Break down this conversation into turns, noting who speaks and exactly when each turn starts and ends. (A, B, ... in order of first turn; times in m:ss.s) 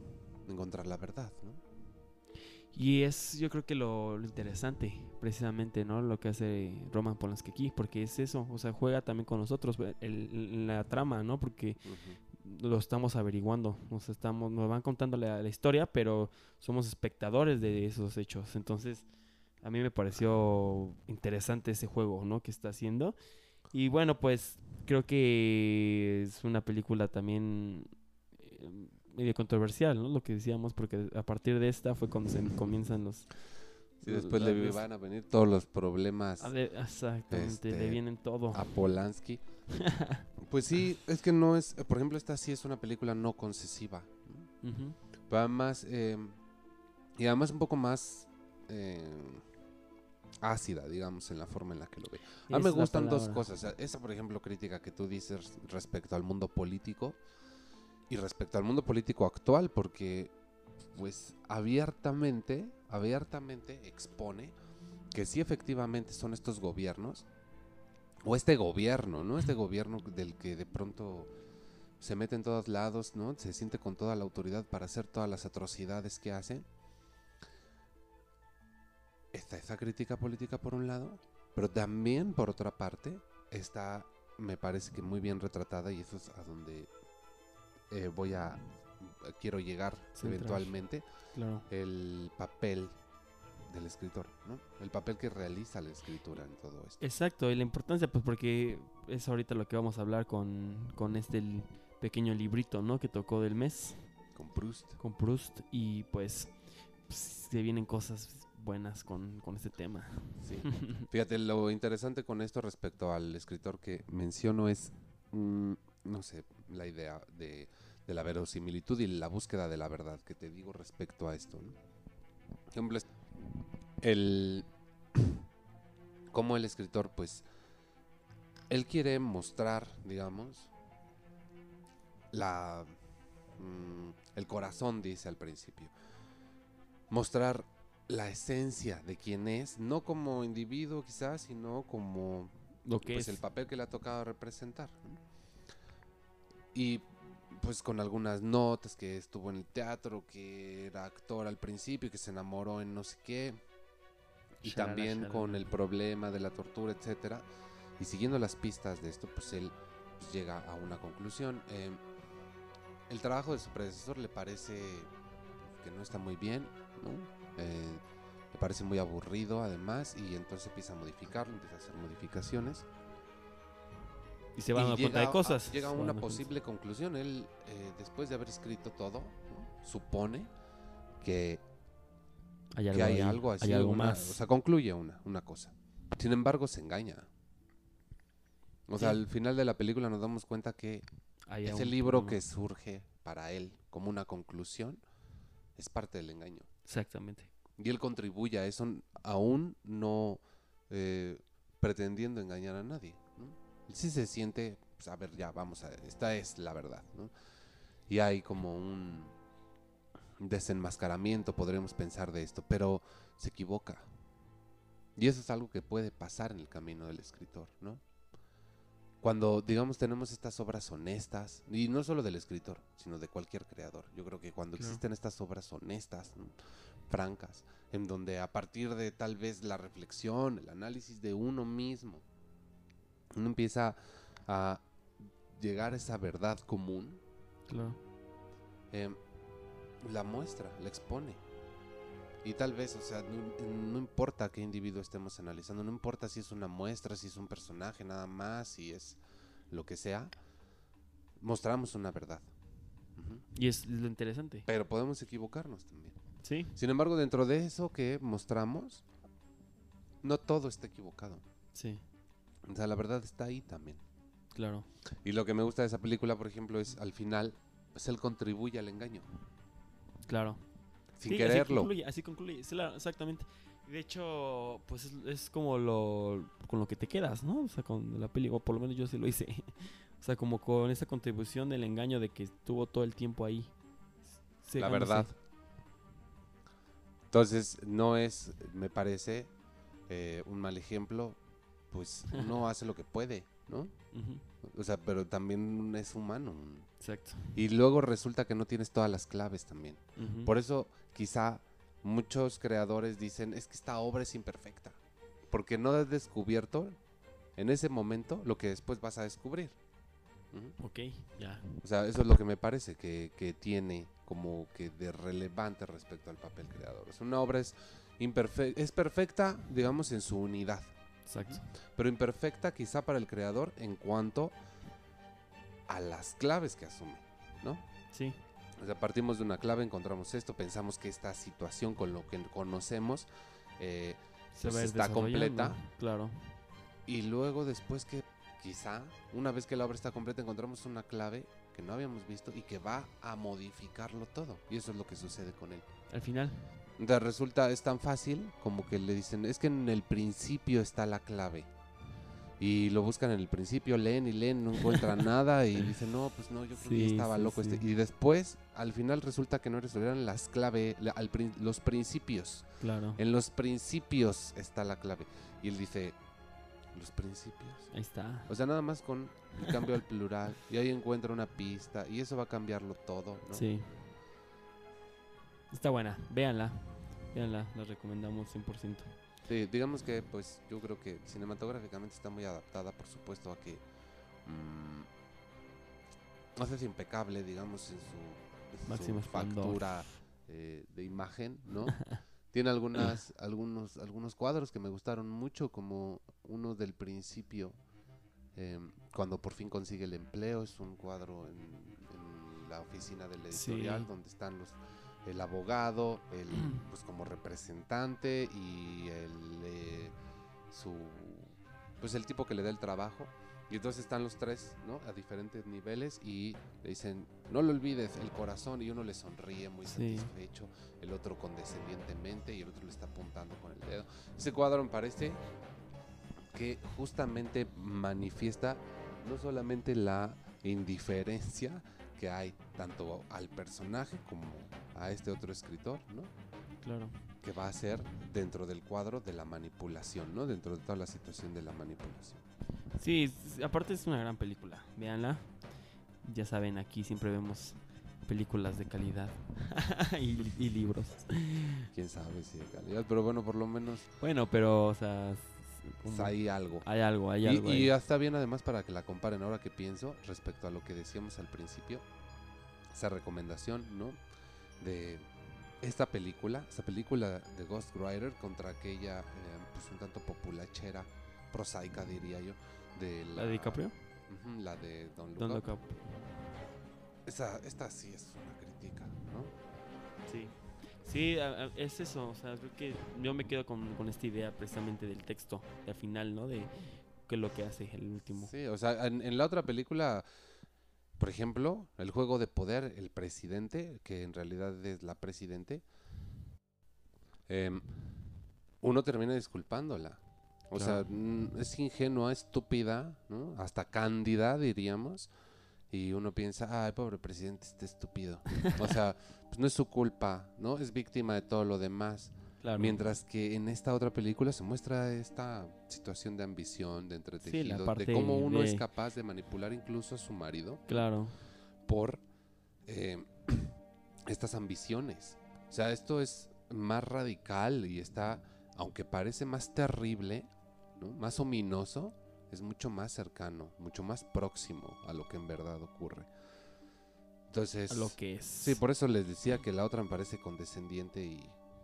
0:00.4-0:01.6 A
0:02.7-0:19.1 B
0:11.8-0:12.2 A
0:19.6-0:23.1 B
0:23.7-0:27.9 B
0:28.4-0:33.3 B
0:34.0-0:34.8 B
0:34.0-0:36.5 A
0:36.4-0:38.7 B
0:37.3-0:39.4 A
0:39.7-0:40.2 B
0:40.4-0:44.5 A
0:44.6-0:45.0 B
0:45.3-0:46.4 A
0:47.2-0:49.4 A
0:50.4-0:57.2 A
0:52.5-0:53.4 B
0:58.1-1:00.3 A
1:00.8-1:04.5 A
1:05.1-1:07.3 A
1:08.2-1:11.3 A
1:12.0-1:16.6 A
1:19.3-1:26.9 A
1:27.9-1:31.0 A
1:30.2-1:30.7 B
1:31.3-1:31.6 B
1:31.7-1:32.9 A
1:33.7-1:37.0 A
1:37.0-1:44.1 B
1:44.3-1:45.0 A
1:45.0-1:46.5 B
1:47.1-1:51.1 B
1:50.4-2:01.8 A
2:02.7-2:03.1 A
2:04.0-2:05.4 A
2:06.3-2:07.4 A
2:08.7-2:10.7 A
2:12.3-2:12.9 A
2:13.6-2:15.9 A
2:17.1-2:25.2 A
2:22.8-2:23.4 B
2:26.7-2:33.6 A
2:34.6-2:35.7 B
2:34.6-2:37.5 A
2:38.0-2:42.0 A
2:43.1-2:45.1 A
2:45.6-2:52.8 A
2:54.6-2:56.5 B
2:54.7-3:00.5 A
3:01.2-3:01.6 A
3:02.7-3:04.4 B
3:02.9-3:07.3 A
3:08.9-3:11.0 A
3:11.5-3:12.4 B
3:11.6-3:15.0 A
3:15.8-3:16.7 A
3:16.9-3:17.5 B
3:17.8-3:27.3 A
3:28.1-3:29.3 A
3:30.4-3:34.1 A
3:35.2-3:38.0 A
3:39.2-3:46.6 A
3:47.1-3:52.2 A
3:53.3-3:54.8 A
3:55.5-3:57.2 A
3:57.7-3:58.0 B
3:58.9-3:59.2 A
4:00.0-4:01.4 A
4:02.4-4:10.3 A
4:11.4-4:12.5 A
4:13.1-4:13.4 A
4:13.5-4:14.6 B
4:14.7-4:16.2 A
4:16.4-4:16.7 B
4:16.7-4:19.0 A
4:20.2-4:21.4 A
4:21.7-4:22.0 B
4:22.6-4:24.0 A
4:24.5-4:24.9 B
4:25.2-4:29.3 A
4:30.3-4:30.6 B
4:31.2-4:31.9 A
4:31.2-4:43.7 B
4:44.6-4:45.3 B
4:44.8-4:45.3 A
4:47.3-4:49.5 A
4:50.1-4:51.4 A
4:51.9-4:53.9 A
4:54.1-4:54.4 B
4:54.6-4:56.9 A
4:57.0-4:57.5 B
4:57.5-5:05.0 A
5:00.2-5:00.5 B
5:05.5-5:07.0 A
5:07.6-5:09.8 A
5:10.8-5:11.8 B
5:11.8-5:20.9 A
5:21.3-5:21.6 B
5:21.9-5:24.5 A
5:25.9-5:27.8 A
5:28.1-5:28.4 B
5:28.8-5:33.3 A
5:33.8-5:35.8 A
5:34.5-5:36.6 B
5:37.0-5:45.9 A
5:46.1-5:46.6 B
5:47.0-5:51.7 A
5:52.6-6:06.2 A
5:56.8-5:57.8 B
6:02.8-6:03.2 B
6:06.9-6:07.9 A
6:07.9-6:08.5 B
6:08.5-6:13.7 A
6:13.5-6:14.1 B
6:15.7-6:19.1 B
6:19.4-6:23.8 A
6:24.4-6:25.1 A
6:26.5-6:37.8 A
6:28.9-6:29.8 B
6:38.5-6:50.1 A
6:43.5-6:44.1 B
6:50.7-7:05.4 A
6:59.8-7:00.3 B
7:06.5-7:16.3 A
7:16.8-7:17.1 B
7:17.4-7:22.4 A
7:23.0-7:25.5 B
7:26.2-7:31.9 B
7:31.9-7:34.1 A
7:34.2-7:37.9 B
7:36.0-7:36.8 A
7:37.4-7:42.0 A
7:42.9-7:44.2 A
7:44.8-7:45.3 A
7:45.8-7:55.7 A
7:53.3-7:54.0 B
7:55.4-7:56.3 B
7:57.2-7:59.5 A
8:00.2-8:08.5 B
8:08.4-8:10.2 A
8:11.2-8:15.8 A
8:17.5-8:17.8 A
8:18.8-8:25.3 A
8:20.8-8:21.0 B
8:25.9-8:40.8 A
8:32.6-8:33.0 B
8:37.4-8:38.8 B
8:40.9-8:41.4 B
8:41.8-8:42.2 A
8:42.8-8:56.3 A
8:57.5-9:01.6 A
8:57.9-8:58.8 B